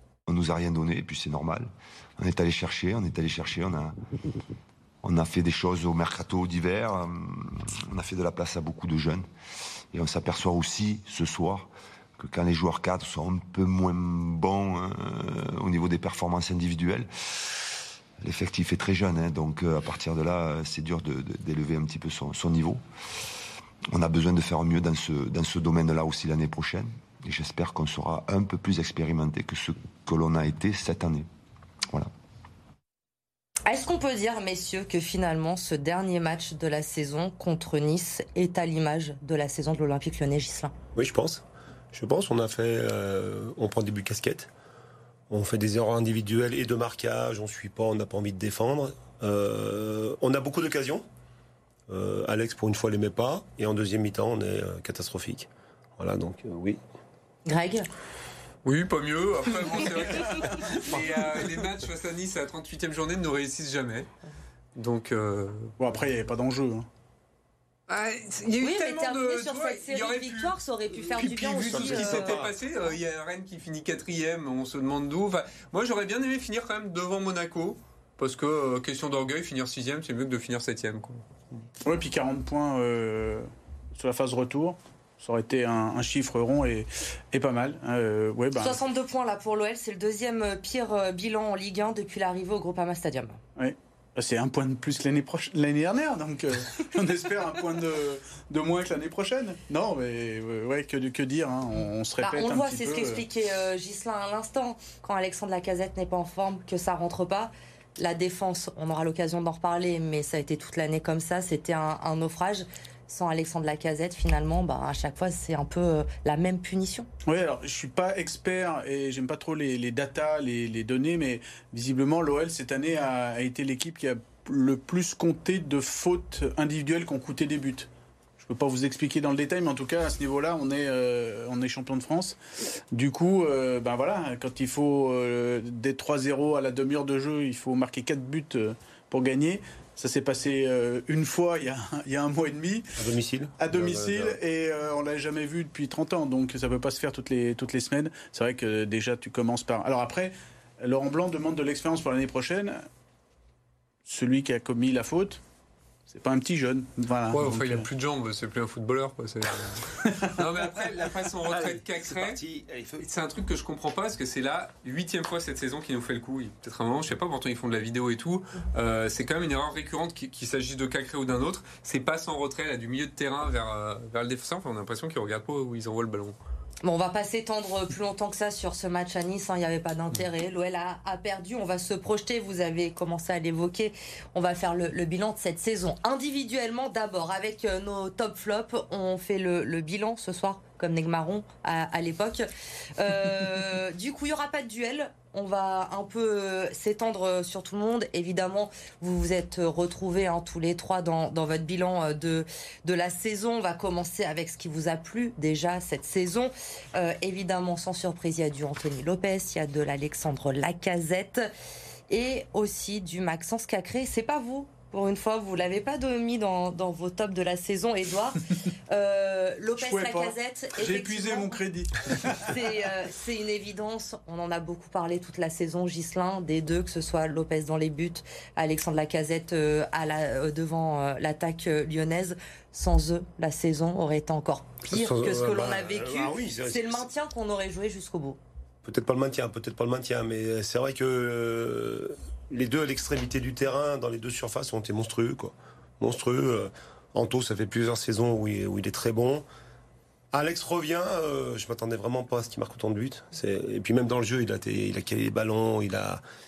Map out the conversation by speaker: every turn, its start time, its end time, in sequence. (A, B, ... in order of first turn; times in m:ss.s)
0:00.3-0:04.0 A
0:05.0-0:09.2 A
0:09.9-0:17.1 A
0:18.2-0:22.8 A
0:23.9-0:31.3 A
0:33.7-0:40.7 B
0:40.9-0:44.5 C
0:45.3-0:51.0 C
0:51.9-0:56.8 C
0:57.4-0:57.9 B
0:58.6-1:04.1 D
1:00.5-1:00.8 E
1:04.7-1:05.7 D
1:05.8-1:06.9 E
1:07.9-1:21.2 D
1:08.6-1:12.4 B
1:11.6-1:12.5 C
1:21.8-1:28.8 E
1:28.6-1:33.4 B
1:33.6-1:43.2 E
1:42.2-1:57.1 B
1:57.2-2:12.4 E
2:12.9-2:22.9 E
2:23.0-2:24.4 C
2:23.6-2:32.8 E
2:34.0-2:35.4 E
2:36.1-2:37.8 E
2:37.3-2:42.4 D
2:41.4-2:43.0 C
2:43.0-2:56.3 D
2:56.8-3:31.5 B
3:32.1-3:41.6 B
3:39.8-3:42.6 E
3:42.4-3:58.4 B
3:54.9-3:57.1 C
3:58.8-4:09.4 C
4:10.3-4:16.2 C